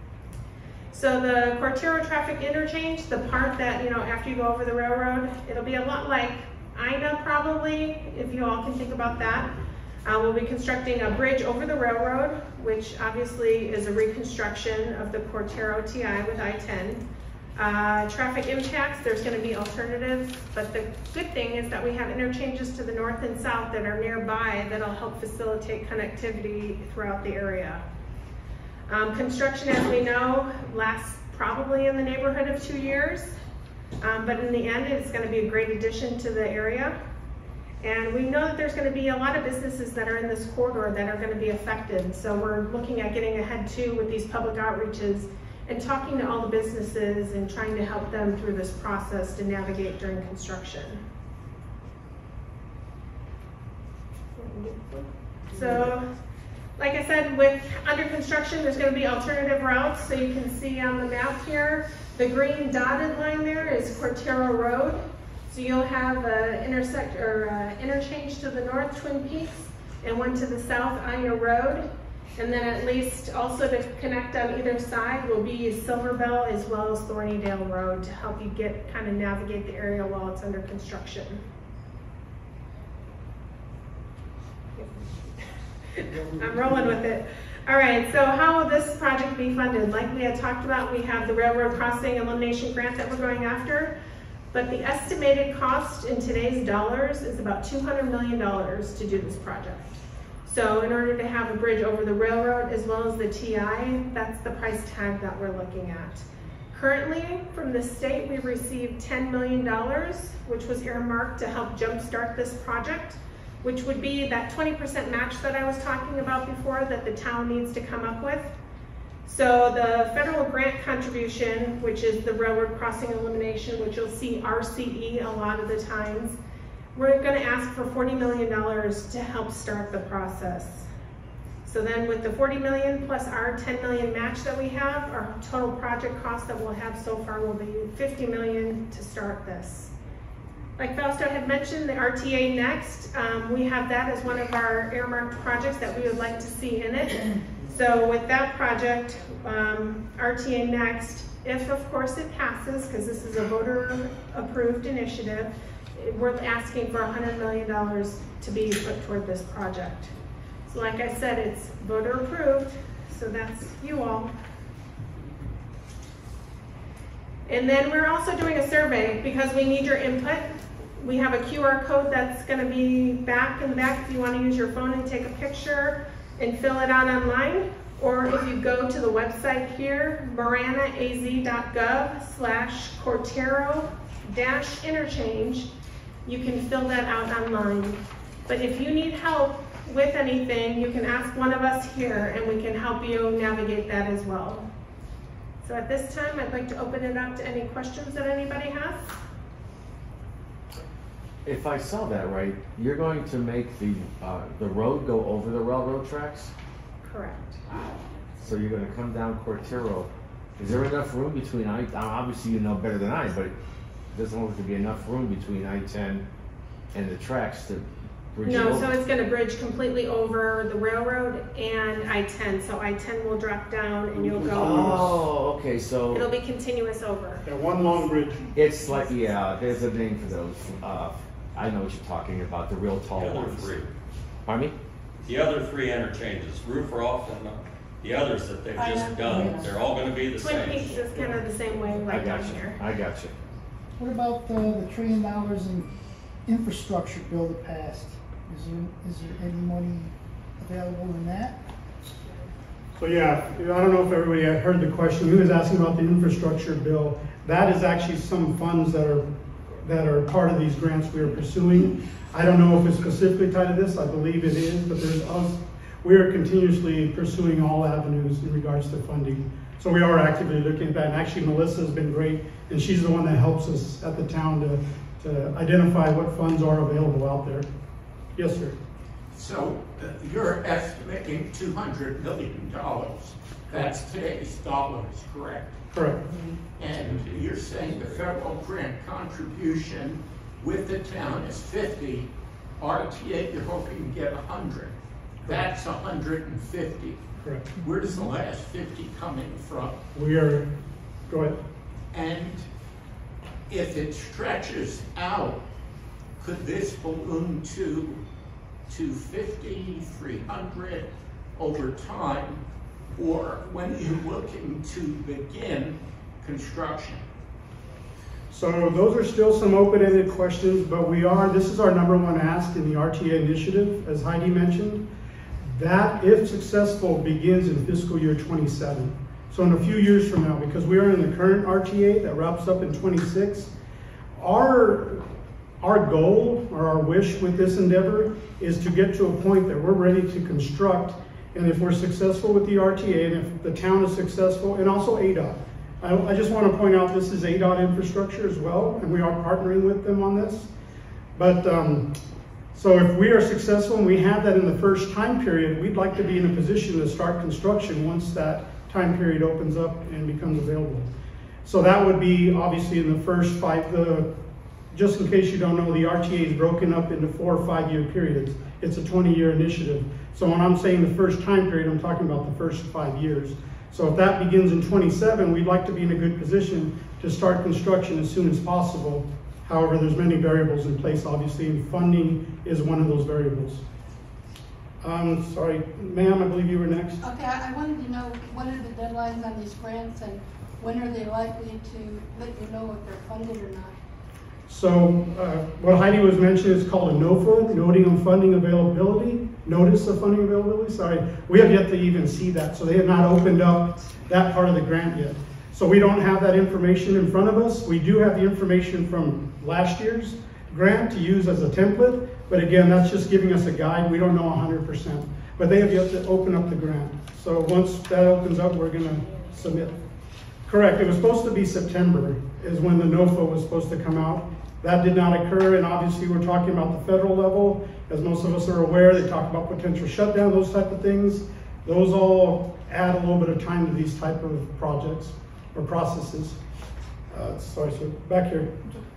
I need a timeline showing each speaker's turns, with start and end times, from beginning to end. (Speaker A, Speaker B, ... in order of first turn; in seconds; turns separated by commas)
Speaker A: 0.9-17.0, Speaker A: 17.6-27.8, Speaker A: 28.9-33.4, Speaker A: 34.0-37.0, Speaker A: 37.8-51.0, Speaker A: 55.5-56.1, Speaker A: 56.8-81.4, Speaker A: 86.3-93.9, Speaker A: 94.5-99.8, Speaker A: 100.4-118.5, Speaker A: 119.2-126.4, Speaker A: 126.9-130.9, Speaker A: 131.6-139.9, Speaker A: 140.8-160.1, Speaker A: 160.7-164.3, Speaker A: 167.5-185.7, Speaker A: 186.2-194.6, Speaker A: 195.6-199.1, Speaker B: 201.4-206.5, Speaker A: 207.0-207.6, Speaker B: 208.4-213.5, Speaker B: 214.1-216.2, Speaker B: 216.9-218.9, Speaker A: 218.4-225.2, Speaker B: 224.3-226.2, Speaker C: 224.4-225.1, Speaker A: 226.1-227.4, Speaker C: 227.4-228.4, Speaker B: 228.5-233.8, Speaker D: 233.1-233.9, Speaker B: 234.4-234.8, Speaker D: 235.2-241.0, Speaker A: 238.8-239.7, Speaker A: 240.3-242.8, Speaker B: 242.1-243.3, Speaker E: 244.0-245.9, Speaker E: 246.4-251.6, Speaker C: 253.0-259.2, Speaker C: 259.8-277.6, Speaker C: 278.4-278.8, Speaker F: 279.3-285.8, Speaker C: 283.7-284.0, Speaker C: 285.9-286.3, Speaker F: 286.8-297.2, Speaker C: 297.4-297.7, Speaker F: 297.8-300.0, Speaker C: 300.1-300.7, Speaker C: 301.3-301.6, Speaker F: 302.1-302.6, Speaker F: 303.7-305.6, Speaker F: 306.4-308.2, Speaker F: 308.9-312.6, Speaker F: 313.1-317.2, Speaker C: 318.5-325.0, Speaker C: 325.7-333.7, Speaker C: 334.4-335.2, Speaker C: 335.8-350.7, Speaker C: 351.4-352.1, Speaker C: 352.7-361.1, Speaker C: 361.6-364.3, Speaker C: 364.9-383.8, Speaker C: 385.0-387.2, Speaker G: 387.2-394.0, Speaker C: 394.7-420.0, Speaker C: 420.6-436.6, Speaker C: 437.3-438.8